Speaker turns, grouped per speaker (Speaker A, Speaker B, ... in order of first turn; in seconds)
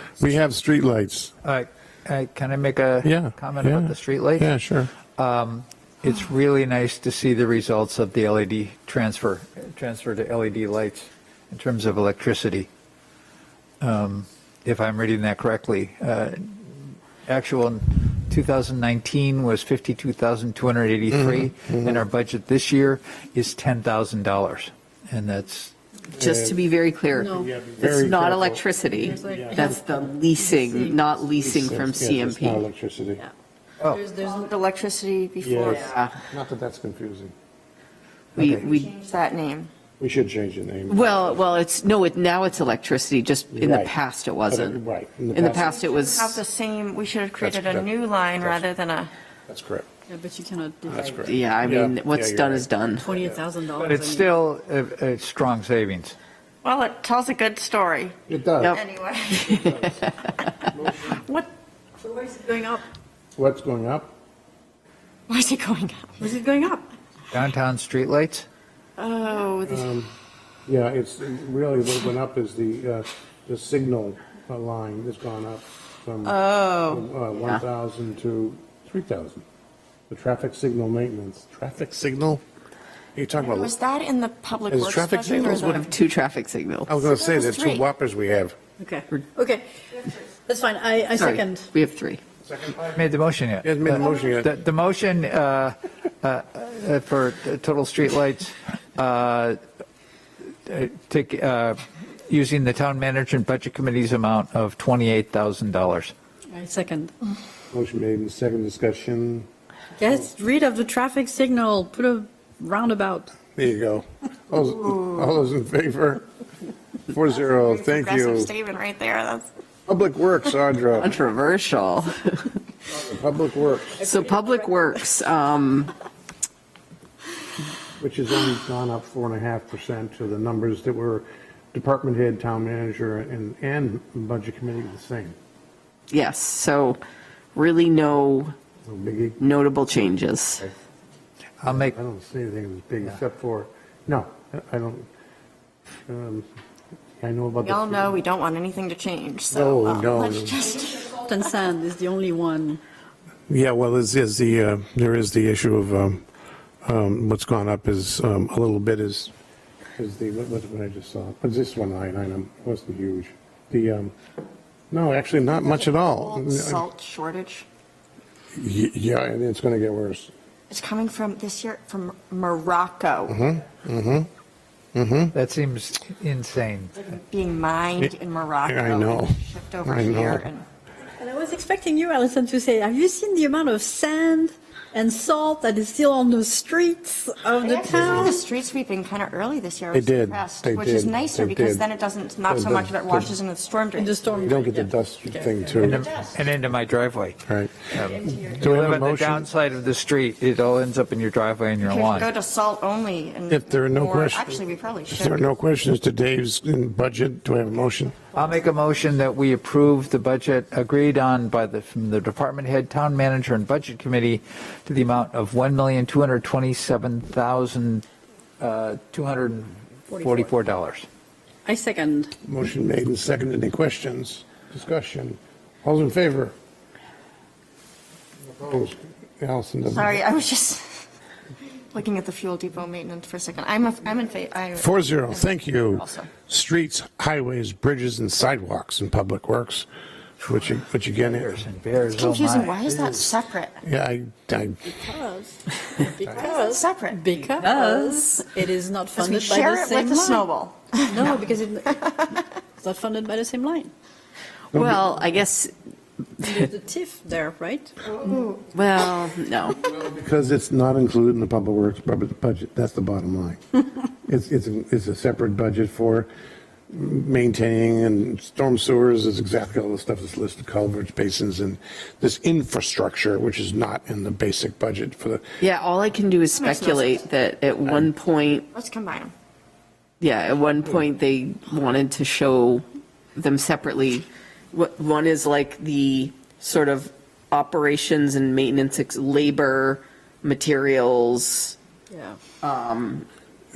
Speaker A: 0.2-1.3, 3.0-4.9, 21.1-22.0, 26.1-26.6, 27.3-29.7, 31.4-33.2, 35.4-37.3, 40.0-41.4, 43.5-44.0, 44.5-45.7, 47.4-48.6, 49.5-49.9, 50.9-53.4, 58.3-58.8, 59.5-60.1, 60.7-61.2, 63.4-64.1, 69.6-70.1, 70.7-79.4, 80.1-82.4, 83.2-83.8, 84.7-85.8, 86.9-88.6, 92.4-94.5, 107.7-109.5, 113.5-116.2, 117.1-118.5, 119.9-121.2, 122.9-124.0, 128.0-135.4, 138.8-139.4, 141.6-145.1, 146.1-146.5, 147.2-148.2, 149.5-150.6, 153.5-156.2, 156.8-159.3, 160.0-164.1, 164.9-166.8, 168.6-170.3, 173.3-174.3, 174.9-175.3, 178.7-180.4, 189.9-191.8, 192.5-193.3, 194.4-196.1, 197.5-197.9, 198.5-199.5, 203.5-208.3, 222.4-226.6, 228.4-230.2, 234.8-239.9, 240.4-241.6, 242.9-243.3, 243.8-245.0, 254.7-255.0, 259.8-266.3, 266.9-275.4
Speaker B: 1.4-4.5, 5.2-12.7, 13.8-25.7, 38.4-38.7, 53.8-56.2, 67.3-68.5, 92.9-99.6, 100.7-106.1, 141.6-141.9, 175.3-177.1, 195.8-197.4, 197.9-202.3, 208.3-218.1, 218.6-221.1, 241.2-242.9
Speaker C: 26.2-32.6, 35.6-36.1, 38.4-38.9, 40.9-44.8, 45.3-46.4, 51.2-53.1, 85.5-86.9, 91.2-92.2, 120.9-122.5, 124.0-125.9, 136.1-137.0, 137.6-138.6, 139.4-140.7, 247.6-248.4, 254.7-255.7, 256.4-256.7, 258.7-259.9, 275.6-278.7, 280.2-282.9, 283.4-291.8, 292.6-293.3
Speaker D: 27.1-27.5, 28.8-31.1, 33.9-34.5, 50.1-51.2, 53.0-54.3, 62.0-62.9, 66.2-66.9, 88.8-91.7, 106.5-107.1, 110.0-113.3, 124.0-125.1, 151.2-152.8, 181.2-188.4, 193.9-195.9, 220.1-220.5, 221.7-222.3, 245.1-250.5, 251.1-252.3, 252.8-253.9, 256.4-258.0, 292.1-292.4
Speaker E: 34.1-35.9, 38.4-39.7, 45.4-49.1, 56.6-58.2, 58.7-59.6, 60.6-61.5, 65.3-66.2, 69.0-69.9, 76.3-77.0, 83.4-85.9, 87.0-87.9, 117.3-119.5, 147.6-151.3, 165.4-167.7, 170.7-173.4, 177.0-180.7, 187.6-194.5, 195.8-196.4, 197.9-198.7, 201.8-205.4, 229.9-231.1, 231.7-236.3, 242.1-243.8, 246.3-247.7, 249.2-251.3, 251.9-252.2, 258.1-258.7, 276.6-277.2, 278.7-279.3